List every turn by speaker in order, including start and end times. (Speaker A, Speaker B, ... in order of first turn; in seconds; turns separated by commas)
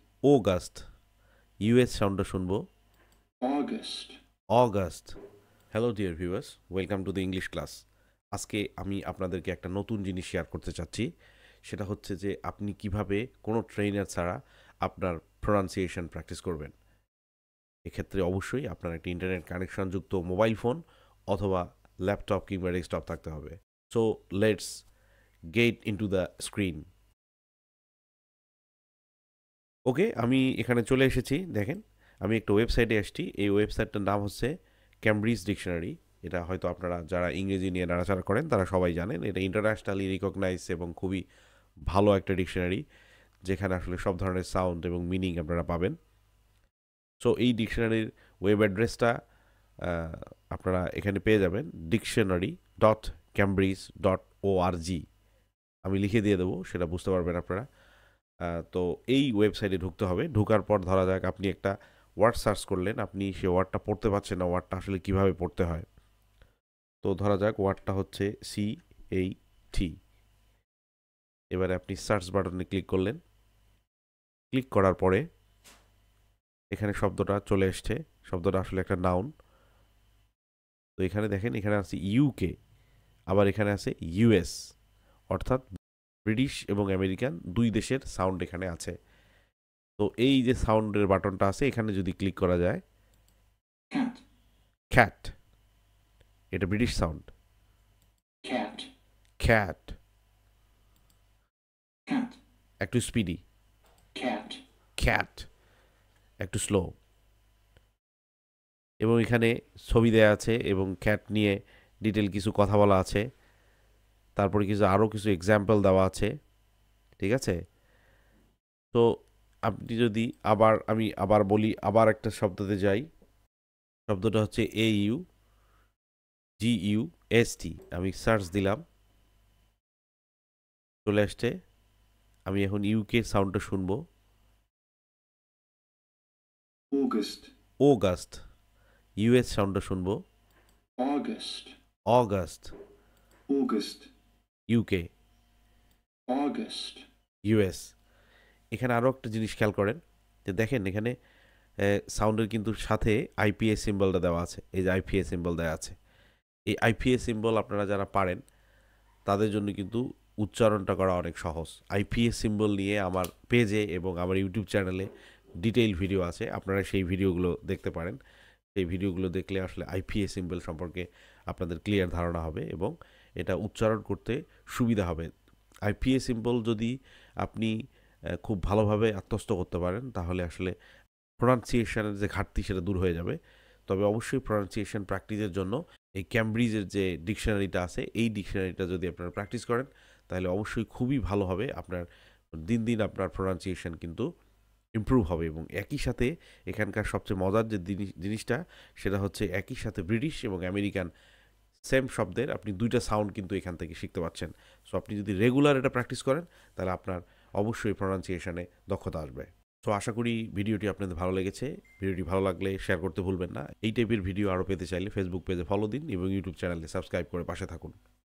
Speaker A: 0.3-0.8, Speaker A: 1.6-2.6, Speaker B: 3.4-4.2, Speaker A: 4.5-5.1, Speaker A: 5.7-7.7, Speaker A: 8.3-11.0, Speaker A: 11.7-16.7, Speaker A: 17.8-24.8, Speaker A: 25.5-26.8, Speaker A: 29.9-34.5, Speaker A: 35.0-41.2, Speaker A: 41.9-42.8, Speaker A: 43.5-46.0, Speaker A: 47.2-49.1, Speaker A: 49.8-55.0, Speaker A: 55.8-57.6, Speaker A: 58.5-65.8, Speaker A: 67.0-69.9, Speaker A: 71.5-73.2, Speaker A: 74.5-75.2, Speaker A: 76.7-79.3, Speaker A: 81.0-82.5, Speaker A: 83.3-84.6, Speaker A: 85.3-85.6, Speaker A: 86.2-88.9, Speaker A: 90.0-92.8, Speaker B: 93.9-94.2, Speaker A: 94.9-95.3, Speaker A: 96.5-97.3, Speaker B: 98.4-98.9, Speaker A: 99.4-100.0, Speaker B: 102.1-102.4, Speaker A: 102.8-103.4, Speaker B: 104.1-104.6, Speaker A: 105.0-105.5, Speaker A: 106.4-106.9, Speaker A: 109.0-113.2, Speaker A: 114.3-116.3, Speaker A: 117.2-117.5, Speaker A: 119.7-123.0, Speaker A: 124.1-125.2, Speaker A: 126.6-128.8, Speaker A: 131.0-131.5, Speaker A: 132.5-134.0, Speaker B: 136.9-137.5, Speaker A: 137.8-138.4, Speaker A: 139.2-140.2, Speaker B: 141.0-141.7, Speaker A: 142.1-142.7, Speaker B: 143.5-144.1, Speaker A: 144.7-145.0, Speaker B: 146.3-147.0, Speaker A: 147.5-147.8, Speaker A: 148.7-151.1, Speaker A: 152.1-155.9, Speaker A: 156.7-158.4, Speaker A: 159.3-165.1, Speaker A: 165.6-168.2, Speaker A: 168.7-175.3, Speaker A: 175.8-176.9, Speaker A: 177.4-177.7, Speaker A: 178.4-180.7, Speaker A: 181.4-183.4, Speaker A: 183.9-192.0, Speaker A: 192.7-194.2, Speaker A: 195.0-201.1, Speaker A: 201.9-218.0